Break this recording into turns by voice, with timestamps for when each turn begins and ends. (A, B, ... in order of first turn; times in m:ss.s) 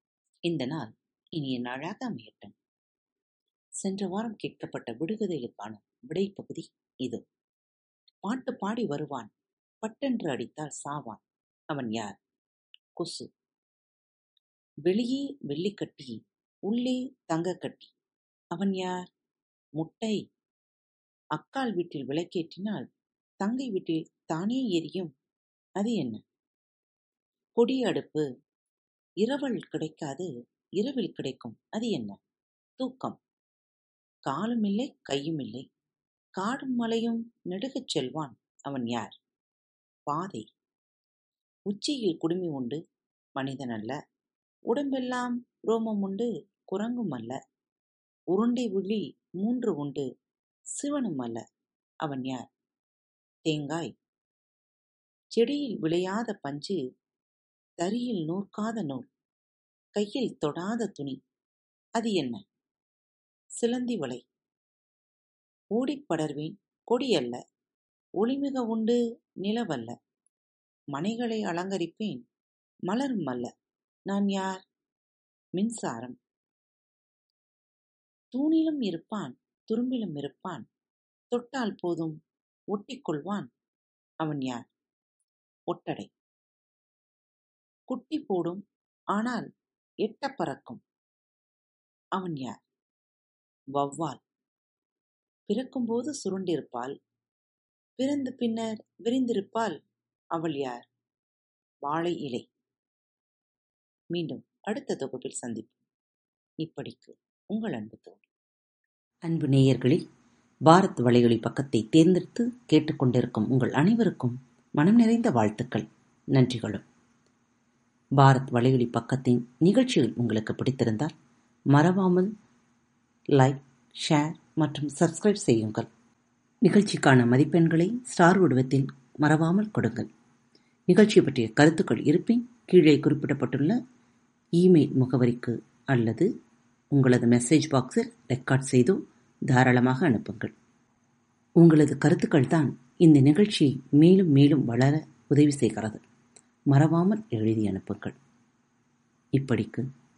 0:00.5-0:02.5 A
0:03.8-0:07.2 A
0:08.2-0:09.3 A
0:09.8-0:12.1 A
0:13.0-0:13.3 A
0:14.9-0:16.2 A
0:16.7-0:17.9 A
0:18.5-0:19.0 A
0:19.8-0:20.2 A
0:21.4-0:22.9 A
0:23.4-0:25.1 A
0:25.8-0:26.2 A
0:27.6-0:28.2 A
0:29.2-0:32.2 A
0:32.8-0:33.2 A
0:34.3-0:35.7 A
0:36.4-0:39.2 A
0:40.1-0:40.4 A
0:41.7-0:42.8 A
0:43.4-0:44.0 A
0:44.7-0:47.4 A
0:48.3-0:50.1 A
0:50.8-0:51.4 A
0:52.0-0:52.5 A
0:53.4-0:53.9 A
0:55.3-0:56.8 A
0:57.8-0:59.1 A
1:00.0-1:01.2 A
1:02.0-1:02.4 A
1:03.6-1:04.2 A
1:05.8-1:07.4 A
1:08.2-1:09.9 A
1:10.9-1:12.2 A
1:12.9-1:13.5 A
1:14.1-1:14.6 A
1:15.6-1:16.2 A
1:18.3-1:20.6 A
1:21.3-1:22.2 A
1:22.7-1:23.5 A
1:24.2-1:24.6 A
1:25.7-1:26.1 A
1:27.9-1:28.6 A
1:29.2-1:29.4 A
1:30.0-1:30.8 A
1:32.2-1:32.6 A
1:33.8-1:34.2 A
1:35.5-1:36.9 A
1:38.0-1:39.8 A
1:40.4-1:40.8 A
1:41.8-1:42.4 A
1:44.1-1:45.8 A
1:46.6-1:48.2 A
1:49.3-1:50.0 A
1:50.7-1:56.8 A
1:58.2-2:01.1 A
2:01.7-2:02.3 A
2:03.3-2:05.9 A
2:06.6-2:10.1 A
2:10.9-2:13.8 A
2:14.6-2:16.3 A
2:16.9-2:20.5 A
2:21.6-2:26.0 A
2:26.7-2:28.2 A
2:29.4-2:29.8 A